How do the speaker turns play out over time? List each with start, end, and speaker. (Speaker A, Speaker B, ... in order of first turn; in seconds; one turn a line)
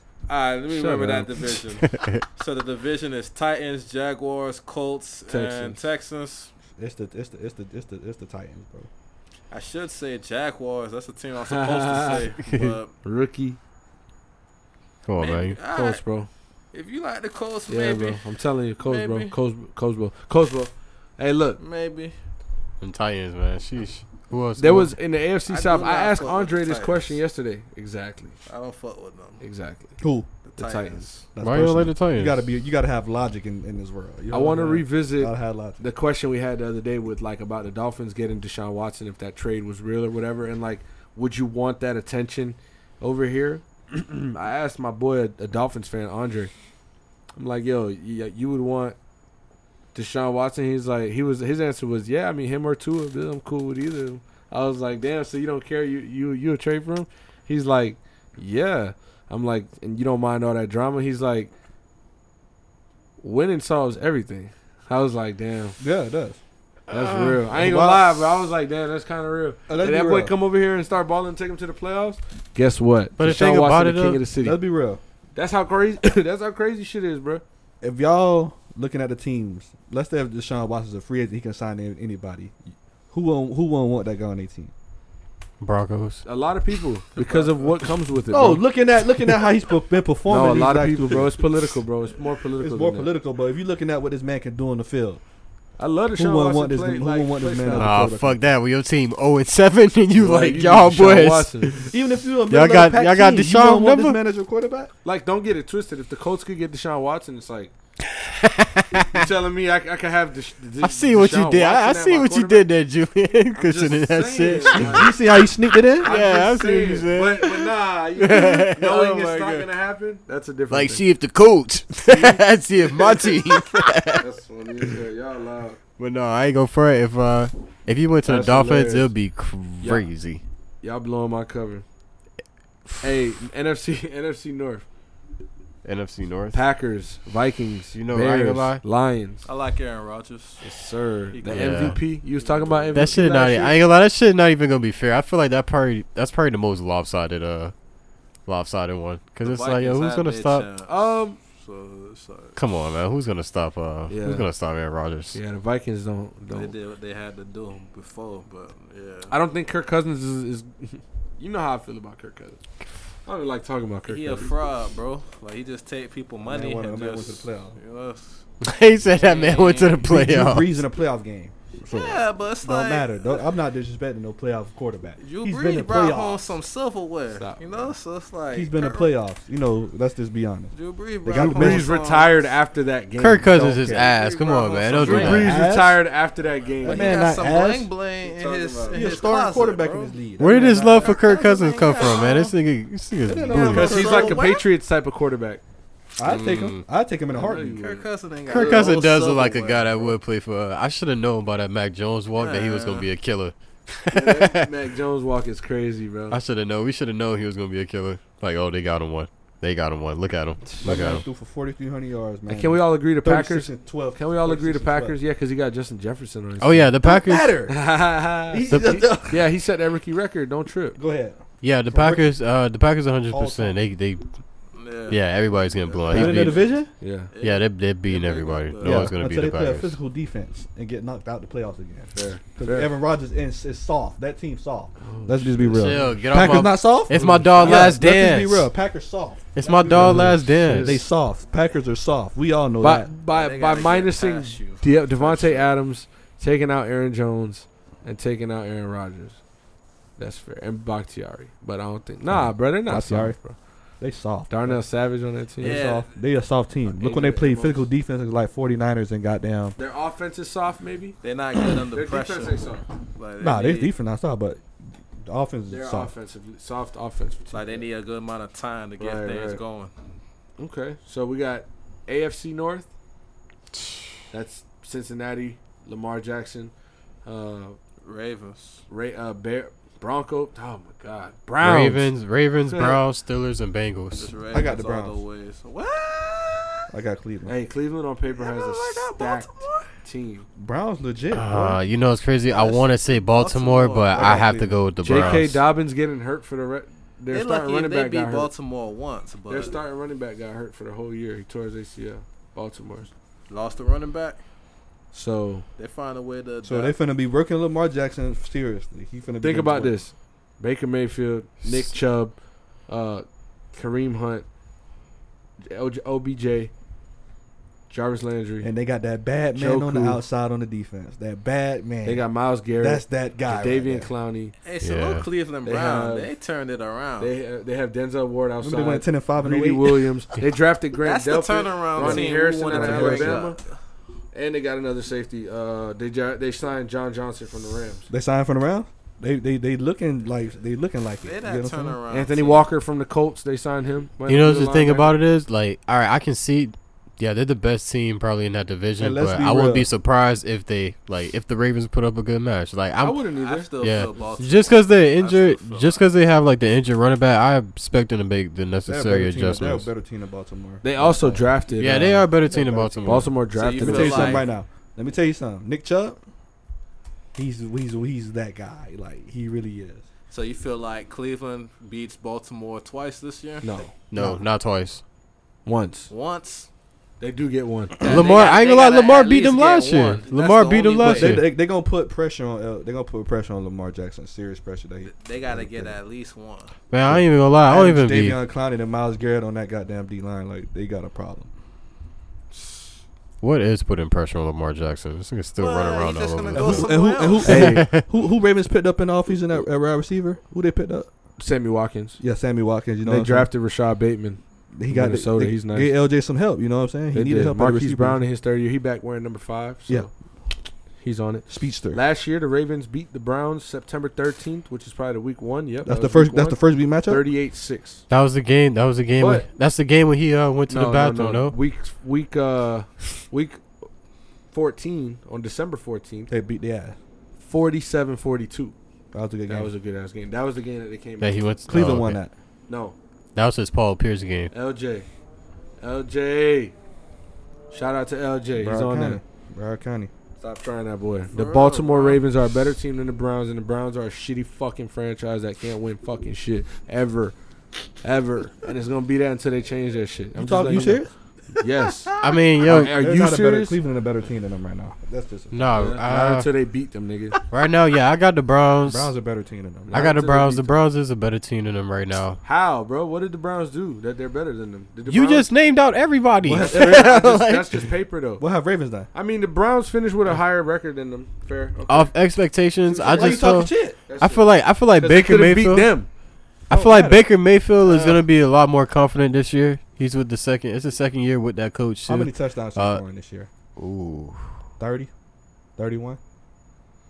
Speaker A: 0.3-6.5
Speaker B: 0.7-1.5
Speaker C: 1.8-2.2
Speaker B: 5.3-5.8
Speaker D: 6.8-8.9
Speaker A: 9.5-12.9
Speaker B: 11.4-12.3
Speaker C: 12.5-12.8
Speaker B: 13.0-13.6
Speaker C: 15.1-15.6
Speaker A: 15.2-16.0
Speaker B: 15.7-16.3
Speaker A: 16.7-18.2
Speaker B: 17.7-21.6
Speaker A: 18.8-19.4
Speaker A: 21.6-22.2
Speaker C: 22.8-24.9
Speaker B: 24.6-28.4
Speaker A: 25.5-27.2
Speaker A: 28.5-29.4
Speaker B: 29.4-30.0
Speaker D: 30.0-30.3
Speaker A: 30.4-31.1
Speaker B: 30.6-31.2
Speaker D: 31.3-35.8
Speaker C: 31.4-32.4
Speaker B: 34.3-46.5
Speaker B: 47.4-49.0
Speaker B: 49.9-61.5
Speaker B: 63.2-65.8
Speaker D: 65.8-66.4
Speaker C: 66.9-67.4
Speaker B: 66.9-74.6
Speaker D: 67.5-68.3
Speaker D: 69.7-70.3
Speaker C: 73.2-74.2
Speaker D: 74.4-75.0
Speaker B: 75.3-77.4
Speaker D: 77.8-82.6
Speaker D: 83.1-84.7
Speaker C: 85.6-86.2
Speaker B: 86.2-88.7
Speaker D: 88.3-91.4
Speaker B: 90.3-93.1
Speaker D: 92.6-95.2
Speaker B: 95.8-98.0
Speaker D: 96.2-98.4
Speaker C: 97.8-101.9
Speaker B: 100.2-101.9
Speaker D: 101.9-104.9
Speaker C: 102.5-104.2
Speaker B: 105.0-107.7
Speaker C: 108.1-109.3
Speaker B: 109.1-112.7
Speaker C: 110.8-115.1
Speaker B: 113.5-115.2
Speaker D: 114.7-116.1
Speaker C: 116.0-119.7
Speaker B: 116.0-121.0
Speaker C: 120.7-124.2
Speaker B: 122.1-123.6
Speaker B: 124.1-125.8
Speaker C: 126.0-130.4
Speaker B: 128.2-129.1
Speaker B: 129.8-130.1
Speaker B: 130.8-131.8
Speaker B: 133.0-134.8
Speaker C: 135.8-136.6
Speaker B: 136.5-139.5
Speaker C: 137.9-138.8
Speaker A: 139.4-140.7
Speaker B: 140.6-143.8
Speaker A: 141.3-143.2
Speaker C: 141.5-142.0
Speaker C: 142.9-147.7
Speaker C: 148.5-150.7
Speaker A: 149.4-152.6
Speaker B: 150.9-151.4
Speaker C: 152.6-155.4
Speaker B: 154.1-154.5
Speaker B: 155.3-156.7
Speaker A: 156.5-159.3
Speaker B: 159.3-162.6
Speaker B: 163.3-164.5
Speaker A: 164.1-168.4
Speaker D: 166.5-167.8
Speaker C: 168.6-170.8
Speaker A: 169.1-170.1
Speaker D: 170.0-176.5
Speaker A: 171.9-173.4
Speaker A: 175.2-179.1
Speaker B: 177.3-177.9
Speaker D: 178.5-180.7
Speaker A: 180.7-182.5
Speaker D: 181.2-181.9
Speaker B: 181.3-183.9
Speaker C: 183.2-185.6
Speaker D: 183.5-184.1
Speaker A: 184.0-185.6
Speaker B: 184.9-187.3
Speaker D: 185.0-186.0
Speaker A: 186.8-190.2
Speaker D: 186.8-187.9
Speaker B: 188.2-189.3
Speaker D: 188.9-191.2
Speaker C: 190.4-194.0
Speaker A: 191.0-192.6
Speaker D: 193.2-194.5
Speaker A: 193.5-194.7
Speaker B: 193.6-195.6
Speaker D: 196.2-197.8
Speaker C: 196.2-196.8
Speaker B: 197.3-198.9
Speaker A: 197.7-200.1
Speaker C: 198.5-204.7
Speaker A: 202.4-203.1
Speaker B: 204.1-206.4
Speaker C: 206.3-211.2
Speaker D: 210.7-215.2
Speaker B: 212.5-216.9
Speaker C: 216.6-217.5
Speaker D: 217.0-217.8
Speaker B: 217.7-221.0
Speaker D: 218.5-219.5
Speaker D: 220.9-222.3
Speaker C: 221.6-224.3
Speaker D: 223.3-223.8
Speaker A: 224.8-226.8
Speaker C: 225.1-226.7
Speaker D: 226.1-226.9
Speaker B: 227.0-227.3
Speaker A: 227.3-229.1
Speaker C: 227.4-230.0
Speaker D: 228.8-243.1
Speaker B: 232.1-232.9
Speaker B: 235.0-237.9
Speaker C: 235.7-238.7
Speaker C: 239.6-241.0
Speaker B: 239.9-241.0
Speaker B: 242.8-249.4
Speaker A: 243.3-245.7
Speaker B: 250.2-253.6
Speaker D: 252.3-253.4
Speaker D: 254.0-254.8
Speaker B: 254.5-255.8
Speaker D: 255.6-259.8
Speaker A: 255.6-256.1
Speaker B: 256.9-257.9
Speaker B: 259.8-261.2
Speaker A: 261.2-263.9
Speaker B: 261.9-262.9
Speaker D: 263.4-264.6
Speaker D: 265.2-266.1
Speaker B: 265.7-267.9
Speaker A: 267.5-269.9
Speaker B: 269.0-269.6
Speaker B: 270.6-272.9
Speaker B: 274.3-276.7
Speaker B: 277.2-277.8
Speaker A: 278.0-278.8
Speaker B: 278.9-282.1
Speaker C: 281.6-284.4
Speaker B: 282.7-283.0
Speaker A: 284.1-286.9
Speaker D: 284.5-285.2
Speaker D: 286.9-287.6
Speaker B: 287.5-290.5
Speaker A: 288.3-289.9
Speaker D: 290.6-291.8
Speaker C: 291.3-295.6
Speaker A: 292.5-294.4
Speaker D: 294.1-295.4
Speaker B: 295.0-298.5
Speaker A: 297.3-299.8
Speaker B: 299.5-303.1
Speaker A: 303.5-304.4
Speaker B: 305.1-305.7
Speaker A: 305.8-306.9
Speaker D: 306.6-310.0
Speaker B: 309.4-312.4
Speaker B: 312.9-314.5
Speaker B: 315.6-316.7
Speaker B: 317.9-318.7
Speaker D: 318.6-324.1
Speaker B: 319.6-320.2
Speaker B: 322.1-324.5
Speaker A: 324.6-327.3
Speaker C: 324.8-325.3
Speaker B: 325.6-326.3
Speaker B: 327.2-333.6
Speaker D: 328.6-330.1
Speaker A: 331.0-333.7
Speaker D: 332.0-333.5
Speaker B: 334.3-338.1
Speaker D: 338.1-342.0
Speaker A: 341.2-342.7
Speaker B: 342.1-345.2
Speaker C: 344.3-353.2
Speaker D: 349.0-349.9
Speaker B: 353.0-354.3
Speaker A: 353.3-356.1
Speaker C: 353.8-359.9
Speaker D: 358.9-366.2
Speaker B: 360.8-362.3
Speaker C: 361.8-363.3
Speaker B: 363.0-364.5
Speaker A: 363.5-364.5
Speaker D: 367.4-370.0
Speaker A: 370.3-373.7
Speaker B: 373.6-373.9
Speaker C: 374.1-375.0
Speaker D: 374.1-374.4
Speaker B: 375.7-376.1
Speaker A: 376.1-376.7
Speaker B: 377.2-378.1
Speaker A: 378.0-381.4
Speaker C: 378.0-381.5
Speaker D: 381.0-386.0
Speaker A: 385.1-386.7
Speaker C: 386.9-388.4
Speaker D: 387.1-391.5
Speaker C: 393.4-398.0
Speaker A: 395.6-397.6
Speaker D: 396.5-401.1
Speaker B: 397.4-397.9
Speaker B: 401.4-402.2
Speaker D: 402.2-403.5
Speaker B: 403.0-405.9
Speaker D: 404.8-408.2
Speaker B: 407.1-410.1
Speaker B: 411.0-418.0
Speaker D: 411.5-412.0
Speaker D: 415.9-417.3
Speaker C: 418.1-421.6
Speaker B: 419.2-419.5
Speaker B: 420.7-423.6
Speaker B: 424.5-426.3
Speaker D: 426.3-427.0
Speaker B: 427.4-428.8
Speaker D: 429.1-429.7
Speaker B: 429.5-431.4
Speaker C: 431.2-432.2
Speaker D: 431.7-432.3
Speaker B: 432.7-432.9
Speaker C: 433.4-434.5
Speaker B: 434.5-435.1
Speaker B: 435.8-436.8
Speaker B: 437.7-439.2
Speaker D: 438.6-440.1
Speaker B: 440.4-447.4
Speaker A: 441.3-442.2
Speaker B: 448.0-451.0
Speaker D: 450.4-451.1
Speaker B: 451.6-453.8
Speaker A: 452.1-452.4
Speaker C: 452.2-453.0
Speaker D: 452.7-455.6
Speaker C: 455.5-456.5
Speaker B: 455.7-457.4
Speaker C: 457.5-459.1
Speaker D: 458.8-460.0
Speaker B: 459.9-460.8
Speaker C: 459.9-462.4
Speaker B: 462.4-465.5
Speaker C: 465.1-467.9
Speaker D: 466.4-467.4
Speaker B: 466.6-468.4
Speaker D: 468.4-469.1
Speaker B: 469.1-472.1
Speaker C: 471.9-475.9
Speaker B: 472.9-476.1
Speaker D: 473.1-474.0
Speaker D: 476.7-477.3
Speaker C: 476.7-483.0
Speaker B: 477.8-478.2
Speaker D: 482.1-483.5
Speaker C: 483.8-484.6
Speaker D: 484.8-485.1
Speaker D: 485.8-486.2